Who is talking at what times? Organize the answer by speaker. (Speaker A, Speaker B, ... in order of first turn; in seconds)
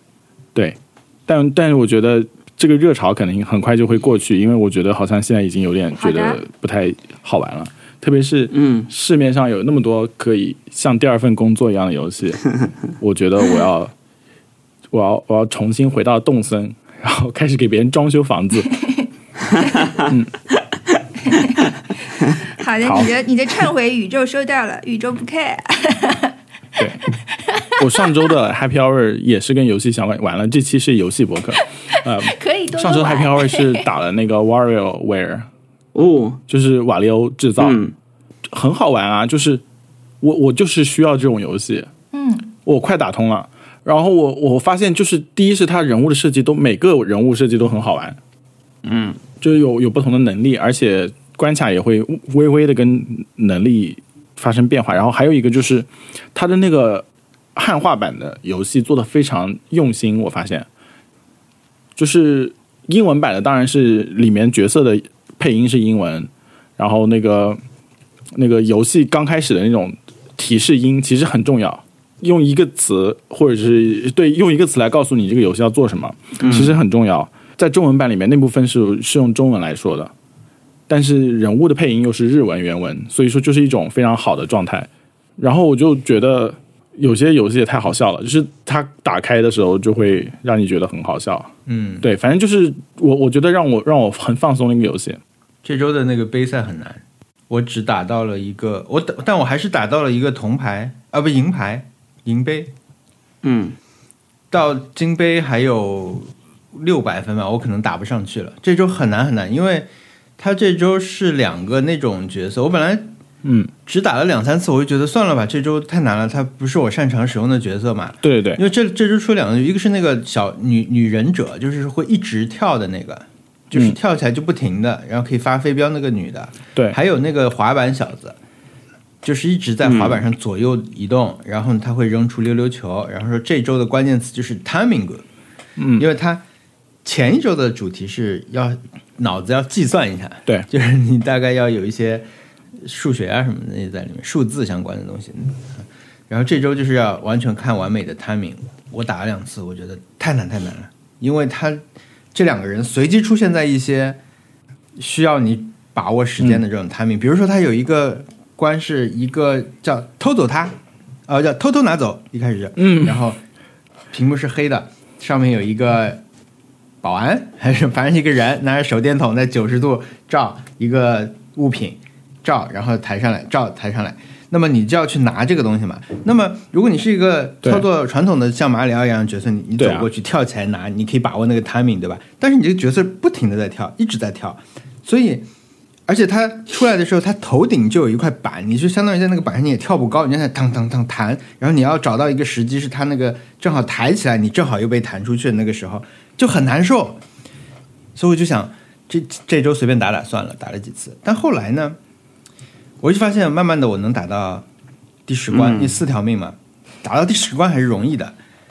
Speaker A: 0.5-13.9, 14.9-18.8, 20.0-20.3, 22.8-23.1, 26.8-27.0, 27.8-35.5, 36.5-37.8, 38.5-39.6, 40.2-41.9, 42.6-48.2, 49.4-57.0, 57.5-60.6, 62.0-67.6, 68.3-80.1, 80.9-91.5, 92.0-95.2, 113.4-113.7, 118.2-118.6, 135.8-136.0, 162.8-163.2, 179.8-180.1
Speaker B: 6.0-6.4, 19.6-19.9, 21.3-21.6, 22.5-26.8, 27.4-28.1, 32.1-33.9, 42.1-42.5
Speaker C: 8.5-8.9, 35.9-36.4, 37.6-37.9, 48.8-49.2, 76.4-76.7, 103.4-103.8, 129.8-130.2, 205.5-206.0
Speaker D: 91.7-92.1, 95.6-102.7, 104.5-113.1, 113.8-128.4, 129.2-135.2, 136.0-136.4, 137.0-142.3, 142.8-151.8, 152.3-154.2, 155.0-160.7, 161.3-163.4, 164.1-166.2, 167.0-185.5, 186.1-197.2, 198.1-202.0, 203.0-204.7, 205.3-208.3